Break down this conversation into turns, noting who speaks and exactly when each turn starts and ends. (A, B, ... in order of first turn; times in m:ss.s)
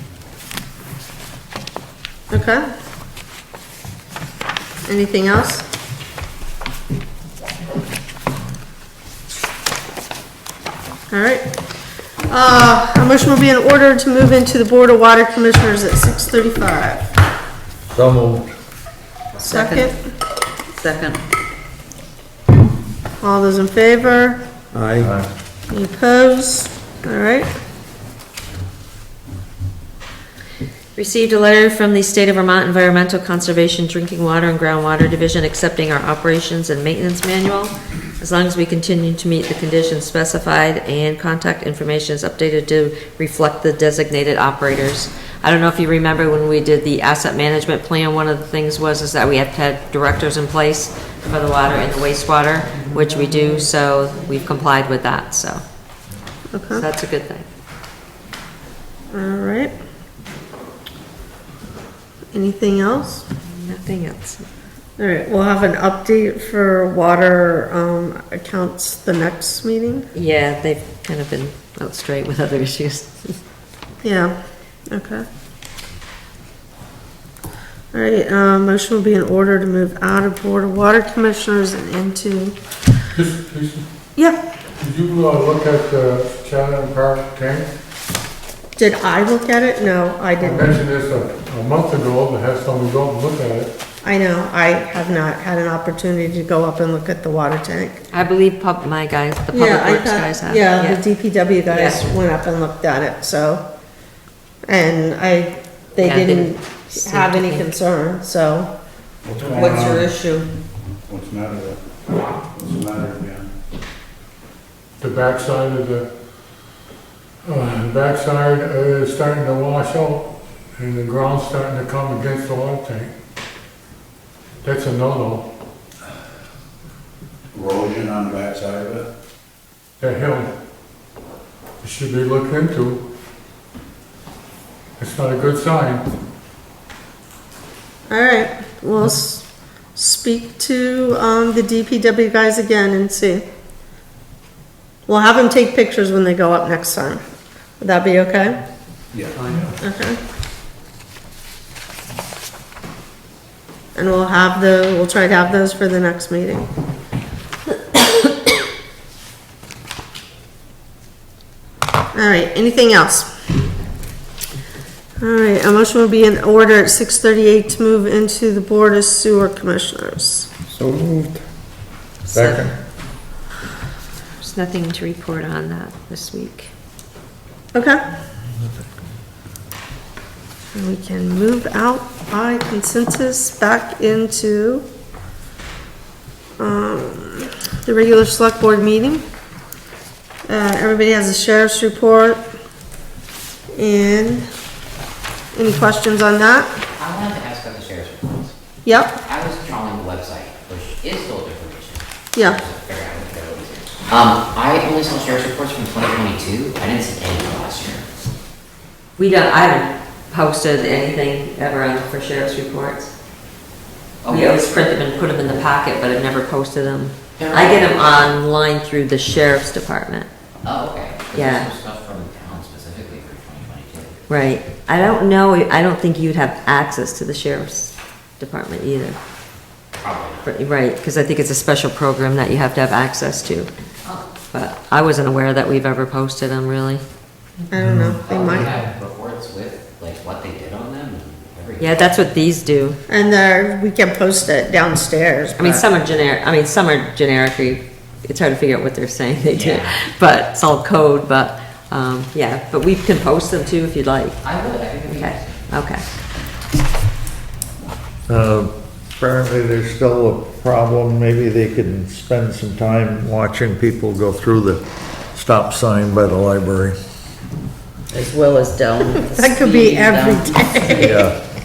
0:02.3-0:02.6 A
0:04.8-0:05.6 A
0:11.1-0:11.5 A
0:12.3-0:17.0 A
0:17.9-0:18.5 B
0:19.4-0:19.9 C
0:19.4-0:20.0 A
0:20.8-0:21.2 C
0:23.2-0:24.4 A
0:24.7-0:25.2 B
0:25.7-0:27.5 A
0:31.0-0:55.6 D
0:56.5-0:56.8 A
0:56.7-0:57.5 D
0:59.1-0:59.7 A
1:02.3-1:03.2 A
1:03.4-1:04.4 D
1:05.0-1:10.1 A
1:10.1-1:13.4 D
1:14.0-1:14.3 A
1:14.9-1:15.2 A
1:17.9-1:22.5 A
1:23.1-1:23.8 E
1:24.8-1:27.7 E
1:28.8-1:30.8 A
1:30.4-1:33.7 E
1:34.0-1:38.0 A
1:38.1-1:41.0 D
1:39.5-1:43.6 A
1:41.7-1:42.0 D
1:44.7-1:48.7 A
1:46.0-1:47.6 D
1:49.2-1:50.1 F
1:49.5-1:50.5 C
1:51.1-1:51.8 F
1:52.5-1:53.5 F
1:55.0-1:56.1 E
1:57.4-2:03.1 E
2:04.6-2:05.4 E
2:07.5-2:09.0 F
2:10.0-2:10.5 E
2:11.8-2:13.0 E
2:15.0-2:16.1 E
2:18.1-2:23.4 A
2:25.1-2:27.2 A
2:27.8-2:28.6 A
2:29.1-2:29.6 F
2:29.8-2:30.2 A
2:33.9-2:36.7 A
2:42.1-2:43.3 A
2:45.2-2:50.5 A
2:50.7-2:51.4 B
2:52.2-2:52.7 D
2:52.3-2:52.7 B
2:54.4-2:56.7 D
2:57.7-2:58.0 A
3:00.7-3:04.8 A
3:06.6-3:09.2 A
3:10.5-3:12.4 A
3:13.7-3:14.4 A
3:15.5-3:16.7 A
3:17.0-3:18.5 G
3:18.8-3:19.2 A
3:19.2-3:28.0 G
3:29.2-3:33.1 D
3:34.2-3:34.7 G
3:34.3-3:40.3 D
3:37.4-3:38.1 G
3:40.6-3:44.2 G
3:41.3-3:41.7 D
3:44.3-3:49.2 D
3:50.0-3:50.4 G
3:50.4-3:53.7 D
3:54.5-3:57.0 D
3:57.7-3:58.8 A
3:58.2-4:02.1 G
4:01.8-4:03.0 D
4:03.1-4:05.9 A
4:05.6-4:14.4 D
4:09.5-4:10.0 G
4:14.4-4:15.7 G
4:15.1-4:16.0 D
4:18.3-4:27.0 B
4:28.1-4:31.2 C
4:29.2-4:31.2 A
4:31.0-4:31.4 B